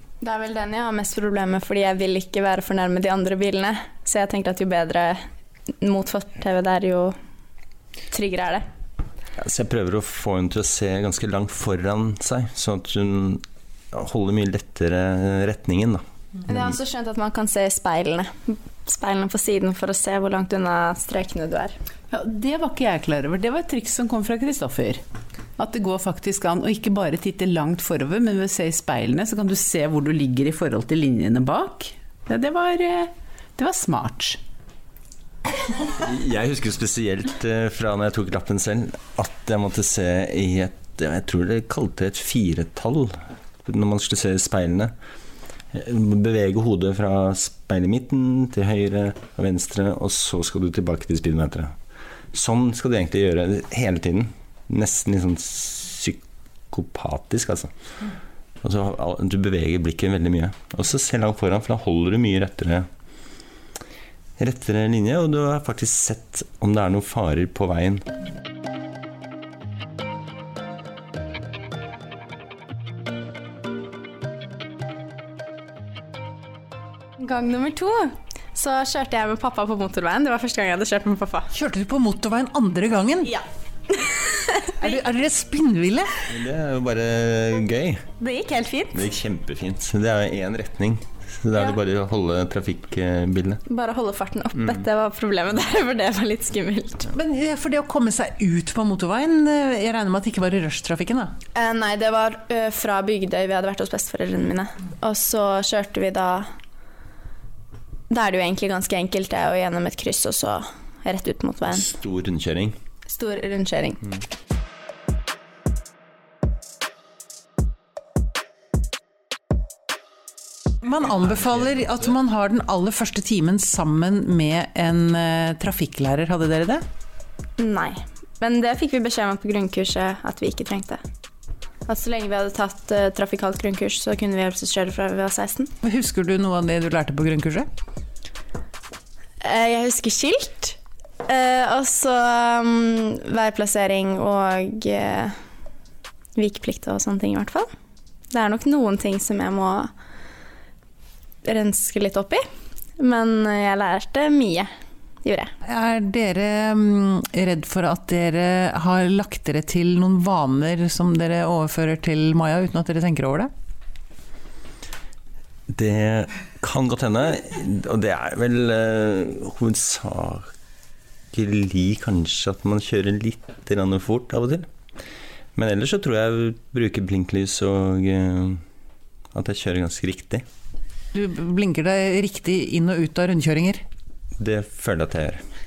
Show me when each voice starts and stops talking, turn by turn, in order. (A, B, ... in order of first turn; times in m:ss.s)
0:00.2-0:05.2 A
0:05.8-0:07.1 A
0:08.1-0:08.6 A
0:09.4-0:16.0 B
0:16.4-0:21.8 A
0:22.1-0:25.0 C
0:25.6-0:34.4 C
0:35.8-0:43.1 B
0:43.6-0:44.9 B
0:45.7-0:51.7 B
0:52.3-0:57.7 B
0:58.6-1:02.9 B
1:04.4-1:08.0 B
1:17.2-1:21.5 A
1:21.5-1:23.3 D
1:23.2-1:25.0 A
1:24.8-1:26.2 D
1:26.3-1:28.0 B
1:28.2-1:29.0 A
1:28.9-1:33.6 B
1:33.7-1:37.1 A
1:37.1-1:41.3 D
1:41.5-1:46.5 A
1:48.1-1:51.9 A
1:51.9-1:52.8 B
1:53.0-1:54.0 A
2:00.8-2:06.8 D
2:07.6-2:11.0 A
2:11.8-2:15.7 A
2:15.8-2:17.7 D
2:19.4-2:25.4 A
2:26.4-2:27.7 A
2:28.3-2:29.9 A
2:31.4-2:32.4 A
2:33.0-2:34.7 A
2:35.2-2:35.5 A
2:35.6-2:43.5 D
2:45.7-2:50.5 B
2:51.3-2:54.7 B
2:55.6-2:58.6 B
2:59.3-3:00.4 B
3:01.1-3:03.8 D
3:04.4-3:05.4 B